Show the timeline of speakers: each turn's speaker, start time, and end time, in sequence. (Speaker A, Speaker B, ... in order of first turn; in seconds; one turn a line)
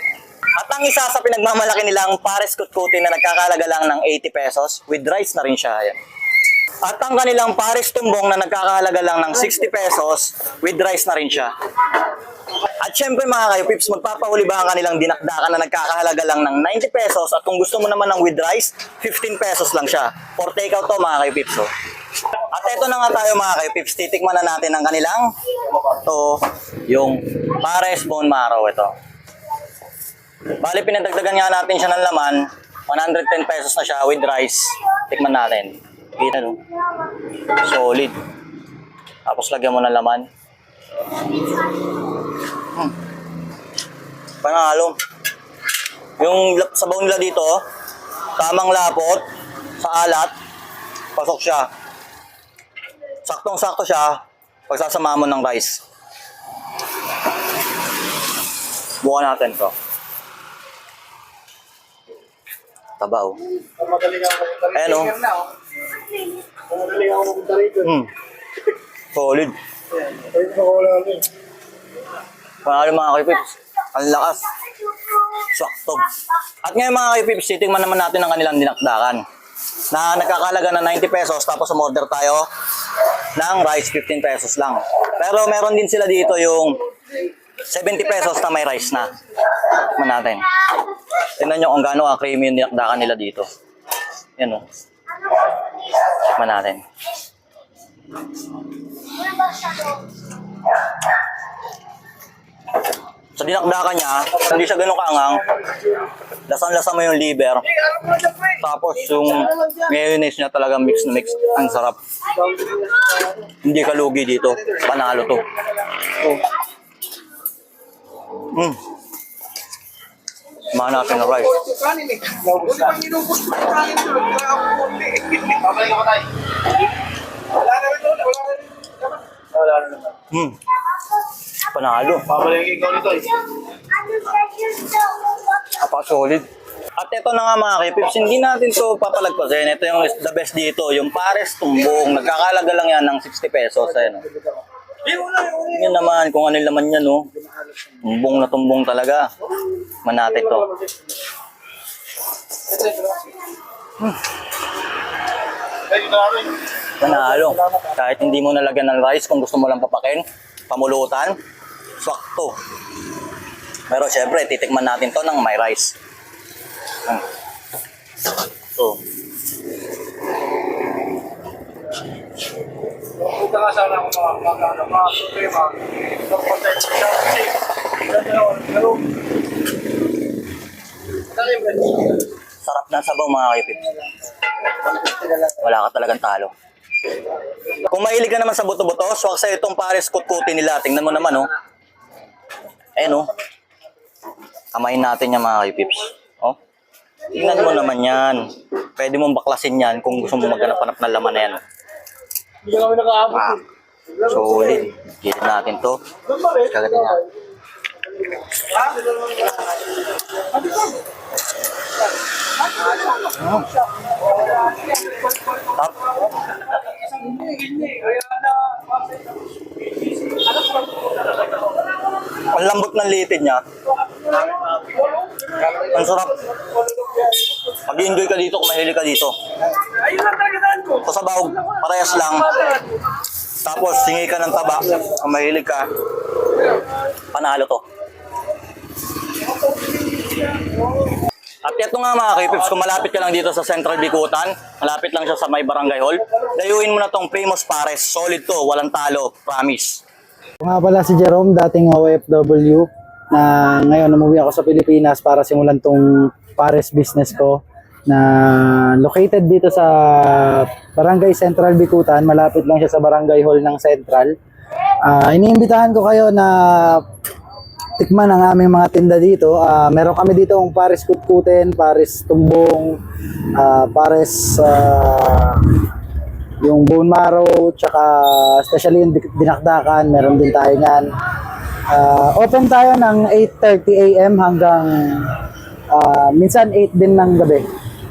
Speaker A: 0.6-6.0
Speaker A: 6.8-11.5
Speaker A: 12.8-21.7
Speaker A: 22.5-28.9
Speaker A: 30.6-36.6
Speaker A: 37.6-38.1
Speaker A: 39.2-40.3
Speaker A: 44.4-45.0
Speaker A: 46.2-47.6
Speaker A: 48.4-49.2
Speaker A: 49.8-50.3
Speaker A: 51.1-51.7
Speaker A: 53.2-55.8
Speaker A: 59.0-59.7
Speaker A: 63.0-63.4
Speaker B: 63.8-64.8
Speaker A: 64.7-65.2
Speaker B: 66.7-67.8
Speaker A: 67.8-68.1
Speaker A: 69.1-69.5
Speaker B: 70.2-71.2
Speaker A: 72.6-74.5
Speaker A: 75.2-76.1
Speaker A: 76.6-79.2
Speaker A: 79.9-82.5
Speaker A: 83.4-86.8
Speaker A: 87.7-89.1
Speaker A: 89.9-90.5
Speaker A: 91.4-93.5
Speaker A: 94.4-94.6
Speaker A: 96.3-96.8
Speaker A: 103.3-105.5
Speaker A: 106.5-107.7
Speaker A: 108.4-112.0
Speaker A: 113.6-115.5
Speaker A: 118.5-118.8
Speaker A: 120.7-121.6
Speaker B: 121.7-126.2
Speaker B: 127.7-128.6
Speaker B: 129.7-130.0
Speaker A: 130.3-130.6
Speaker A: 131.7-132.4
Speaker B: 132.4-133.3
Speaker A: 134.8-135.0
Speaker A: 135.6-144.2
Speaker A: 145.2-147.3
Speaker A: 148.0-149.2
Speaker A: 150.0-150.7
Speaker B: 152.8-153.1
Speaker A: 157.0-161.3
Speaker A: 162.0-162.5
Speaker A: 163.9-165.9
Speaker B: 173.3-175.7
Speaker B: 176.4-177.3
Speaker B: 178.3-178.9
Speaker A: 182.6-183.9
Speaker A: 185.5-186.5
Speaker A: 187.8-191.5
Speaker A: 192.9-193.3
Speaker A: 194.7-196.6
Speaker A: 197.3-198.4
Speaker A: 199.0-201.6
Speaker B: 202.8-203.3
Speaker A: 203.2-203.6
Speaker A: 204.2-207.2
Speaker A: 213.3-213.7
Speaker B: 217.3-218.2
Speaker A: 222.5-223.6
Speaker A: 225.7-226.4
Speaker A: 227.8-229.3
Speaker A: 230.8-232.5
Speaker A: 233.6-235.9
Speaker A: 237.3-237.8
Speaker A: 241.6-250.0
Speaker C: 250.6-264.3
Speaker C: 265.1-267.0
Speaker C: 268.0-273.0
Speaker C: 273.6-275.6
Speaker C: 276.6-281.0
Speaker C: 281.9-285.3
Speaker C: 285.9-287.6